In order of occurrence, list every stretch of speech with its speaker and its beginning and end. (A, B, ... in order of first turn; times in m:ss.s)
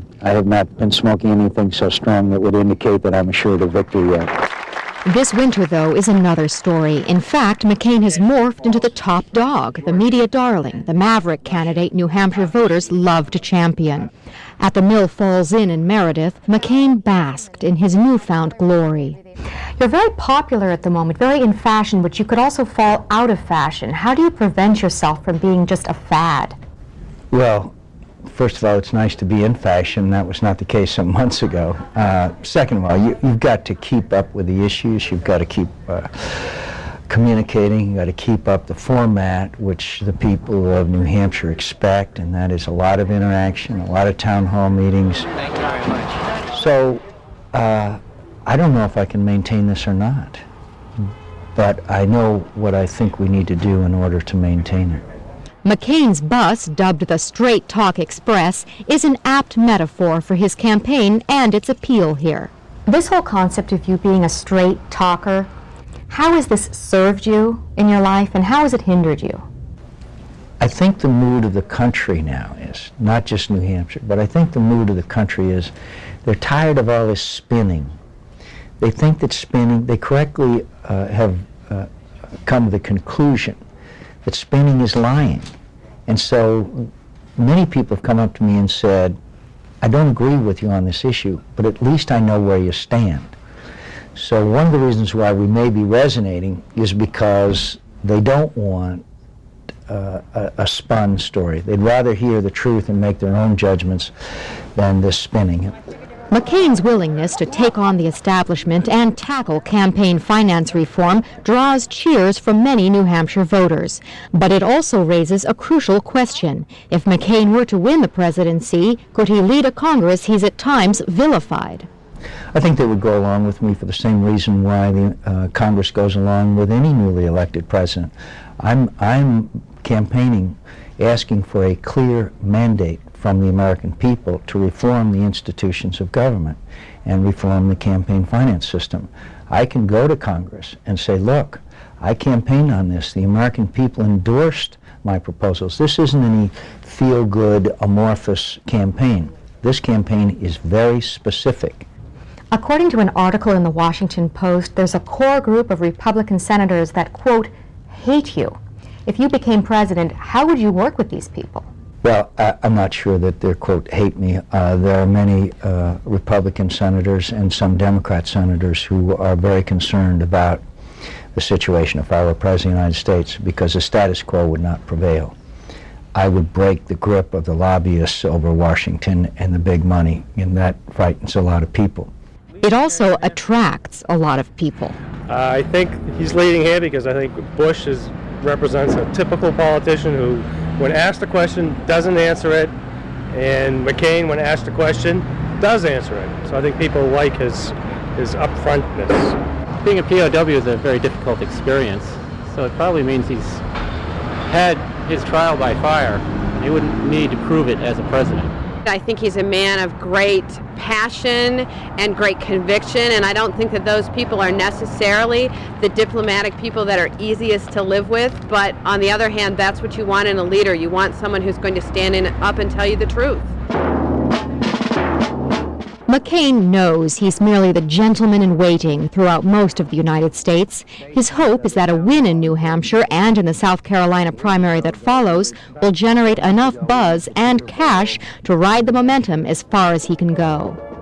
0:00.2-0:04.3 A
0:05.0-0:19.2 B
0:19.8-0:26.6 B
0:27.3-0:27.7 A
0:28.3-0:45.3 A
0:46.5-0:50.4 A
0:51.6-0:55.0 A
0:55.6-1:05.5 B
1:06.1-1:09.4 B
1:10.6-1:15.7 A
1:16.2-1:17.9 A
1:18.8-1:21.9 A
1:22.4-1:23.6 A
1:24.2-1:25.5 A
1:26.1-1:29.2 A
1:29.8-1:33.3 A
1:34.2-1:39.0 A
1:39.9-1:44.1 A
1:44.8-1:45.8 A
1:46.3-2:01.9 B
2:02.5-2:31.9 A
2:32.5-2:41.7 B
2:42.0-2:50.6 A
2:51.3-2:55.3 A
2:56.2-3:02.1 A
3:02.6-3:05.0 B
3:05.3-3:12.7 C
3:13.3-3:19.4 C
3:19.8-3:23.6 D
3:24.5-3:28.5 D
3:28.8-3:43.5 E
3:46.1-4:00.8 B